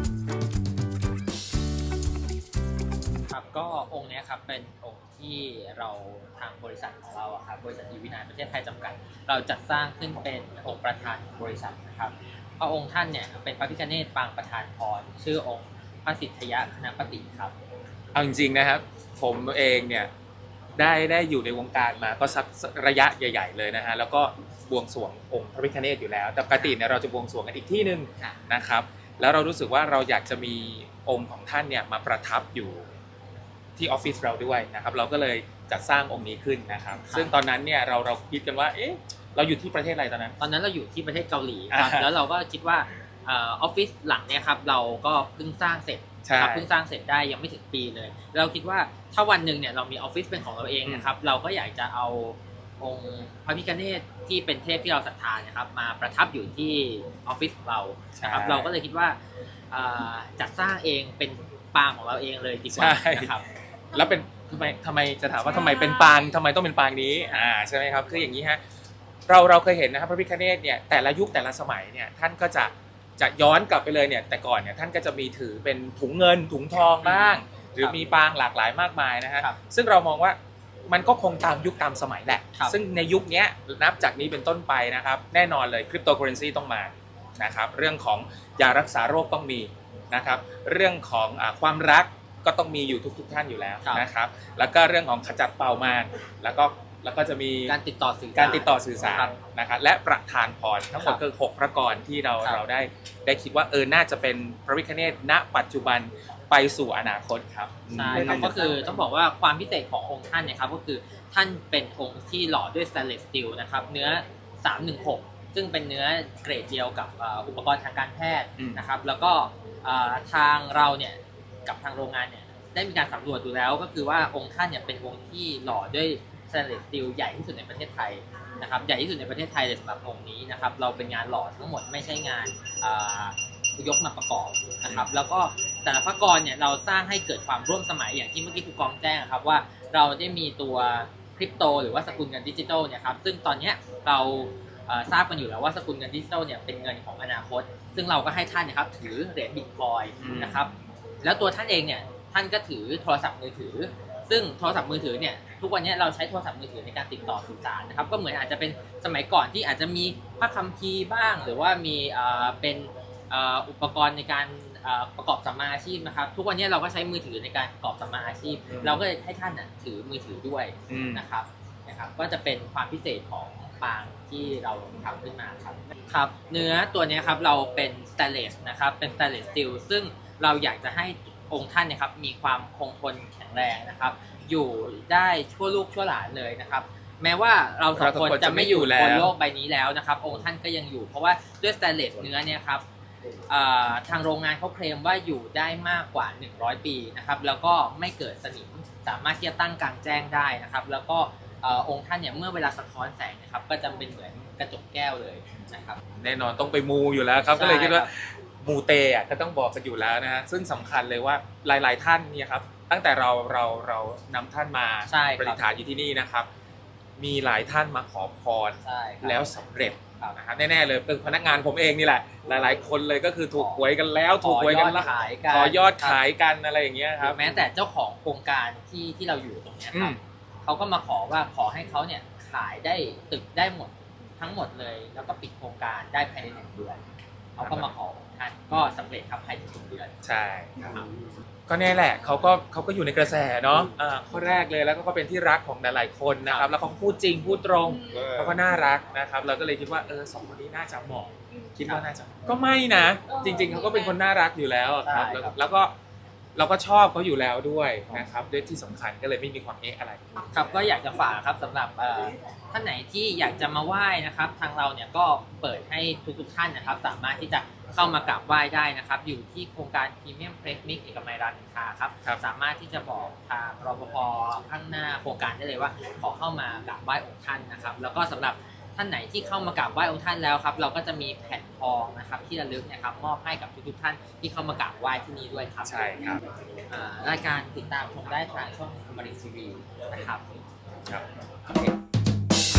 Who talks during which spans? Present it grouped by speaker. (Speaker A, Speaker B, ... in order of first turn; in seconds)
Speaker A: 3.3-17.6, 37.1-37.3, 40.4-59.2, 59.7-63.5, 77.0-78.0, 97.7-99.4, 100.9-101.2, 107.9-150.7, 151.2-192.8, 193.5-206.0, 207.5-208.1, 215.1-215.6, 218.8-219.6, 223.6-223.8, 224.4-226.2, 227.2-237.0, 237.6-240.1, 240.8-241.1, 255.0-255.6, 260.5-286.1, 286.9-290.5
Speaker B: 18.1-20.1, 20.8-32.9, 33.8-40.4, 41.7-42.1, 46.2-46.7, 58.2-58.7, 62.7-63.3, 63.9-68.6, 69.3-80.4, 80.9-97.8, 98.4-108.8, 150.2-150.6, 168.7-169.0, 170.9-171.2, 188.0-189.3, 206.2-216.5, 217.2-227.4, 229.9-230.2, 237.6-237.9, 240.2-240.8, 241.7-255.9, 256.6-260.2, 285.8-286.4